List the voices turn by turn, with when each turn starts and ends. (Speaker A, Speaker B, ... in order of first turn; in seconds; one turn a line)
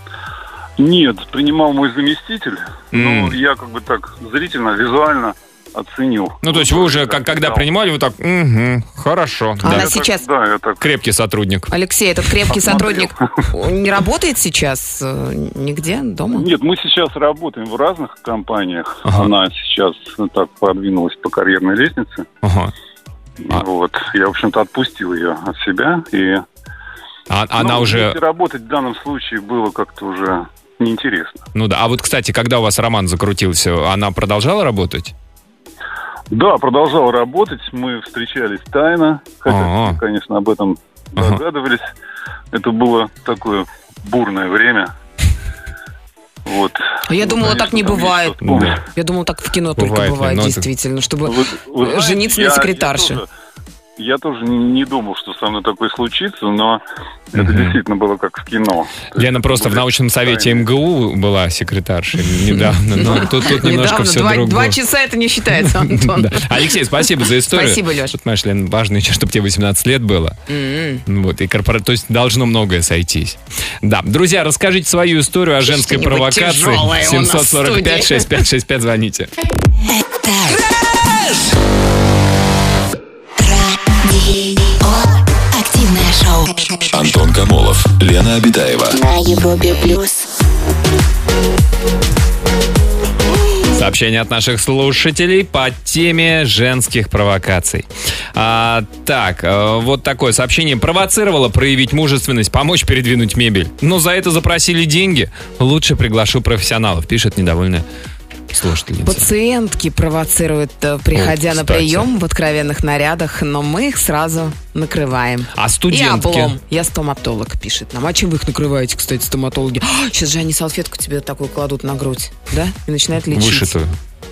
Speaker A: 0.8-7.7
Speaker B: 2.9-3.4
Speaker B: 6.4-9.9
Speaker C: 9.6-10.2
Speaker A: 9.6-10.8
Speaker B: 10.8-11.7
Speaker C: 11.7-16.5
Speaker A: 12.5-13.3
Speaker A: 16.3-22.2
Speaker B: 19.0-19.3
Speaker B: 22.4-22.7
Speaker A: 23.4-26.4
Speaker B: 27.3-28.2
Speaker A: 27.6-31.4
Speaker B: 31.5-35.1
Speaker A: 36.3-41.9
Speaker B: 39.5-40.0
Speaker B: 41.1-41.4
Speaker A: 42.5-44.9
Speaker A: 46.4-48.8
Speaker C: 47.0-53.2
Speaker B: 48.4-48.8
Speaker B: 49.8-50.7
Speaker A: 51.3-53.2
Speaker A: 54.0-60.7
Speaker B: 57.4-57.8
Speaker B: 59.1-64.8
Speaker C: 62.3-66.7
Speaker B: 65.7-70.4
Speaker C: 67.5-68.2
Speaker C: 70.5-71.0
Speaker B: 71.1-79.3
Speaker C: 75.7-78.4
Speaker D: 79.9-80.6
Speaker D: 83.4-87.0
Speaker E: 86.9-89.0
Speaker D: 88.9-90.3
Speaker B: 93.7-107.8
Speaker B: 108.5-109.2
Speaker C: 109.0-123.8
Speaker B: 111.1-112.1
Speaker B: 115.5-116.5
Speaker B: 123.3-123.9